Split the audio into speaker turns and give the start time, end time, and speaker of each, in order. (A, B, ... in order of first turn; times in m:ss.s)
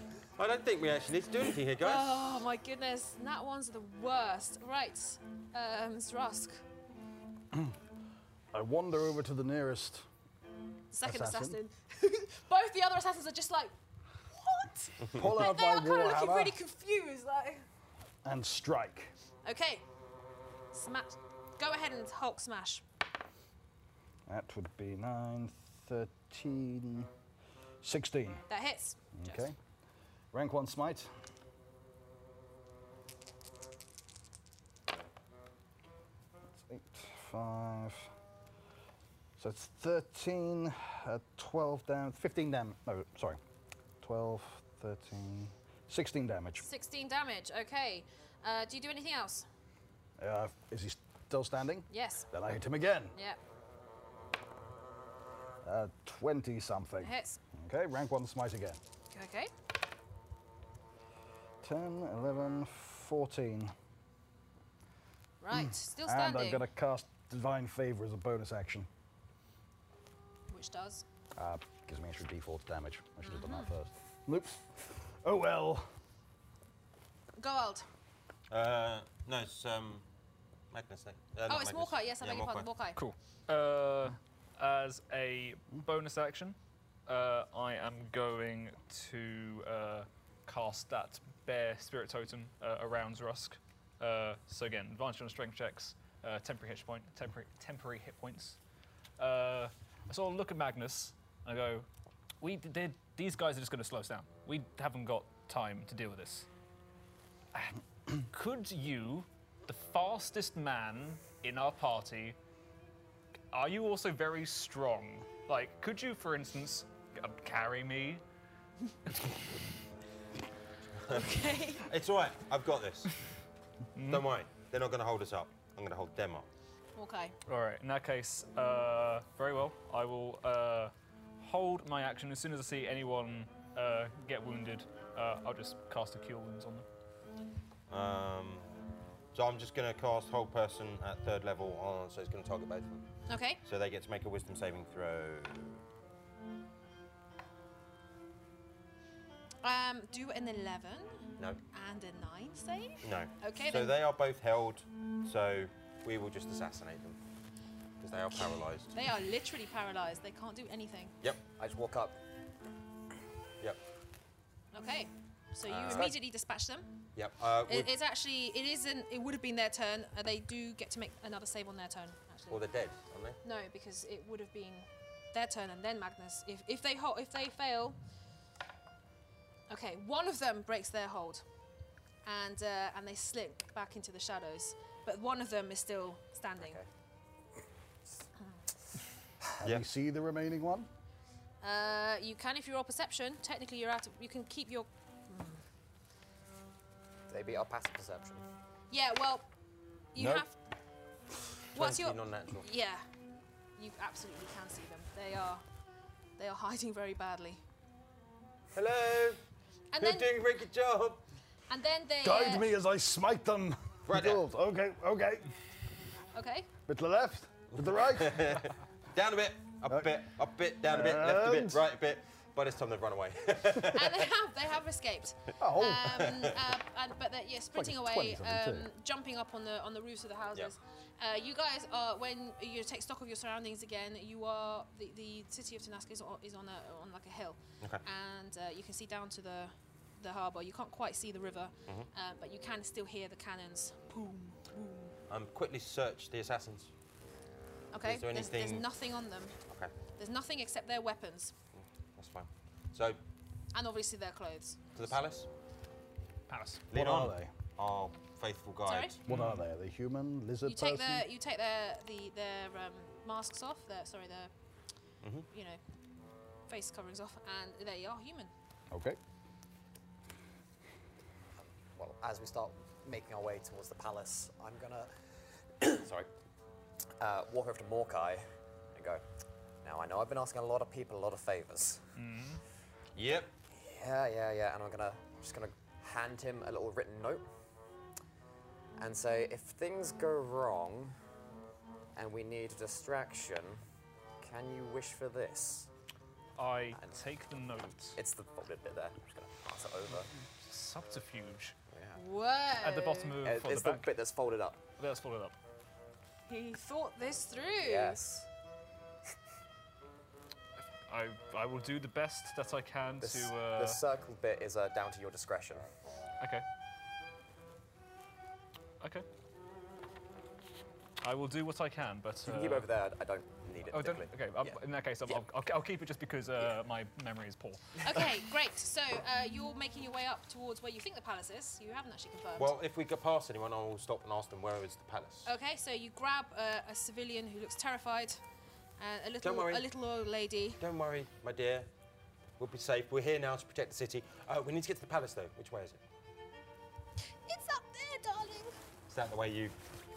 0:00.4-0:02.2 A
0:01.8-0:06.6 B
0:08.5-0:10.0 C
0:10.9-0:13.7 B
0:11.0-0:11.6 C
0:14.3-0:17.6 B
0:15.1-0:16.6 C
0:18.2-0:19.1 C
0:19.4-0:19.8 B
0:20.7-0:22.8 B
0:24.3-0:27.1 C
0:27.8-0:28.4 C
0:28.5-0:29.4 B
0:29.1-0:29.5 C
0:30.3-0:31.1 C
0:36.5-0:38.1 C
0:39.4-0:43.4 C
0:44.0-0:46.6 C
0:46.6-0:49.4 B
0:50.2-0:53.1 C
0:51.9-0:52.3 B
0:55.6-0:58.8 C
0:57.0-0:57.4 B
0:59.1-0:59.5 B
1:01.6-1:03.7 C
1:05.4-1:06.6 B
1:05.5-1:08.9 C
1:10.5-1:11.0 B
1:11.4-1:15.8 C
1:13.2-1:13.7 B
1:17.4-1:17.8 B
1:18.5-1:20.0 A
1:20.7-1:22.7 A
1:21.5-1:23.0 B
1:23.0-1:38.6 D
1:39.2-1:41.9 D
1:42.4-1:46.5 D
1:48.2-1:52.4 D
1:53.5-1:58.2 D
2:01.0-2:03.1 A
2:01.1-2:01.9 B
2:03.9-2:04.3 D
2:04.1-2:06.5 A
2:07.0-2:07.4 B
2:07.4-2:16.8 D
2:17.9-2:18.7 A
2:19.3-2:23.0 A
2:23.3-2:23.6 B
2:23.6-2:25.8 A
2:29.6-2:33.9 B
2:33.0-2:37.2 A
2:38.0-2:38.9 A
2:38.9-2:41.2 B
2:41.6-2:42.2 E
2:44.7-2:47.0 B
2:45.6-2:46.1 A
2:45.9-2:46.1 E
2:47.2-2:47.9 A
2:47.7-2:52.6 B
2:52.5-2:53.4 A
2:53.4-2:58.0 B
2:59.7-3:01.4 B
3:02.2-3:06.8 B
3:06.6-3:06.8 E
3:09.6-3:10.9 C
3:11.6-3:15.6 B
3:17.3-3:18.4 E
3:18.9-3:19.5 B
3:20.1-3:20.6 B
3:20.2-3:20.4 A
3:21.7-3:22.6 A
3:21.7-3:23.1 B
3:23.8-3:25.6 B
3:26.4-3:27.6 B
3:28.7-3:29.4 A
3:29.9-3:30.3 B
3:30.0-3:31.2 A
3:31.7-3:32.7 B
3:32.2-3:35.5 C
3:34.1-3:34.4 A
3:36.3-3:36.7 B
3:36.8-3:38.4 C
3:37.8-3:44.3 A
3:40.9-3:41.8 C
3:43.9-4:05.1 B
3:45.6-3:46.3 C
3:46.2-3:46.7 A
3:47.7-3:48.9 C
4:05.3-4:06.9 A
4:07.9-4:09.6 B
4:08.0-4:08.9 A
4:10.1-4:11.5 B
4:12.2-4:13.2 A
4:13.7-4:14.8 B
4:14.9-4:15.5 A
4:16.5-4:16.8 D
4:16.9-4:19.2 A
4:16.9-4:17.5 C
4:18.9-4:19.2 B
4:19.2-4:21.3 C
4:19.3-4:19.6 D
4:20.6-4:24.5 B
4:25.5-4:25.8 B
4:26.7-4:28.5 B
4:28.9-4:29.2 C
4:31.6-4:35.2 E
4:35.8-4:36.3 E
4:37.2-4:39.2 E
4:39.8-4:42.1 E
4:42.2-4:42.6 D
4:43.1-4:43.5 A
4:43.7-4:47.4 E
4:49.0-4:51.1 E
4:52.2-4:53.8 E
4:54.4-4:55.9 E
4:56.6-4:58.2 D
4:56.9-4:57.2 E
4:58.1-5:00.3 E
5:00.2-5:01.8 D
5:01.9-5:02.2 E
5:02.1-5:03.3 B
5:02.8-5:04.1 D
5:03.4-5:04.8 E
5:05.0-5:05.6 D
5:06.5-5:08.2 B
5:07.8-5:08.5 E
5:10.8-5:14.0 D
5:13.2-5:15.9 E
5:16.4-5:16.6 D
5:19.0-5:19.2 D
5:21.2-5:22.9 D
5:22.4-5:25.4 E
5:23.9-5:28.2 D
5:28.0-5:32.7 B
5:32.6-5:35.5 A
5:35.4-5:38.4 B
5:39.0-5:40.8 B
5:39.4-5:39.8 A
5:40.8-5:41.9 A
5:42.6-5:46.0 A
5:47.4-5:48.8 B
5:49.1-5:49.8 A